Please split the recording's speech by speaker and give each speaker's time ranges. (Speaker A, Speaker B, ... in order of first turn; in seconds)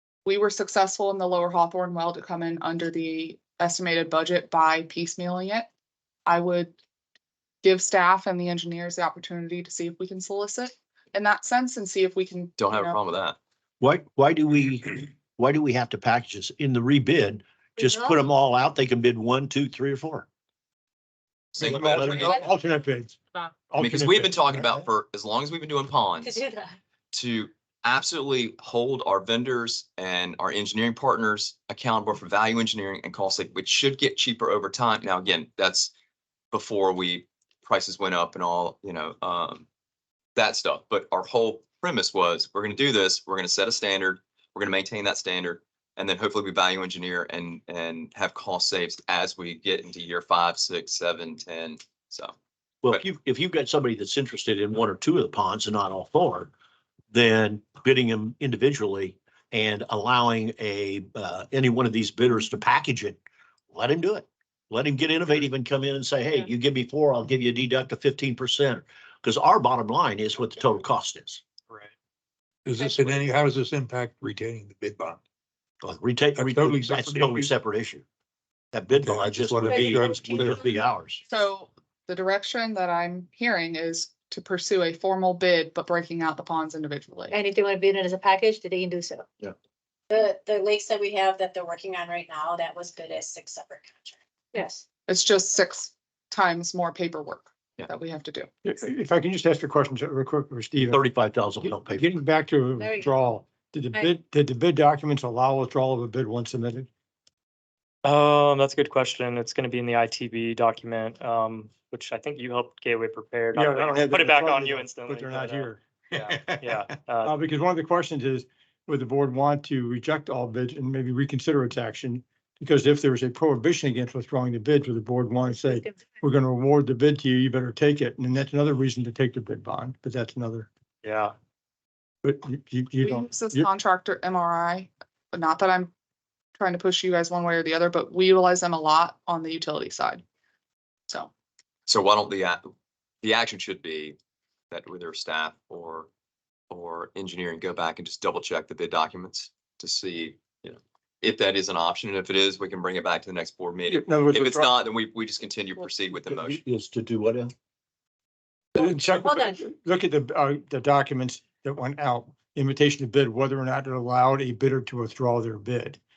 Speaker A: 0.2-5.7, 6.2-6.7, 7.6-13.0, 81.3-87.3, 95.1-98.5, 133.0-135.9, 136.6-140.2
Speaker B: 12.6-13.4, 21.5-22.4, 23.8-26.4, 27.1-35.9, 36.5-39.6, 40.4-52.3, 141.9-142.7, 143.2-144.2, 144.7-146.1, 146.7-156.6
Speaker C: 13.8-20.3, 21.8-22.3, 52.8-56.5, 57.1-63.2, 63.7-71.4, 75.8-78.0, 78.7-81.2, 100.7-102.1, 156.2-157.5
Speaker D: 17.8-18.3, 26.2-26.8, 79.7-80.8, 87.3-89.2, 94.5-94.8, 102.8-103.1, 125.7-126.0
Speaker E: 21.6-23.2, 23.7-24.9, 98.6-101.0, 101.6-106.9, 113.5-130.7, 132.2-133.7, 153.9-154.7, 158.8-166.0
Speaker F: 72.6-75.2, 76.3-77.5, 78.9-80.6
Speaker G: 90.1-94.2
Speaker H: 108.0-117.3, 131.0-131.3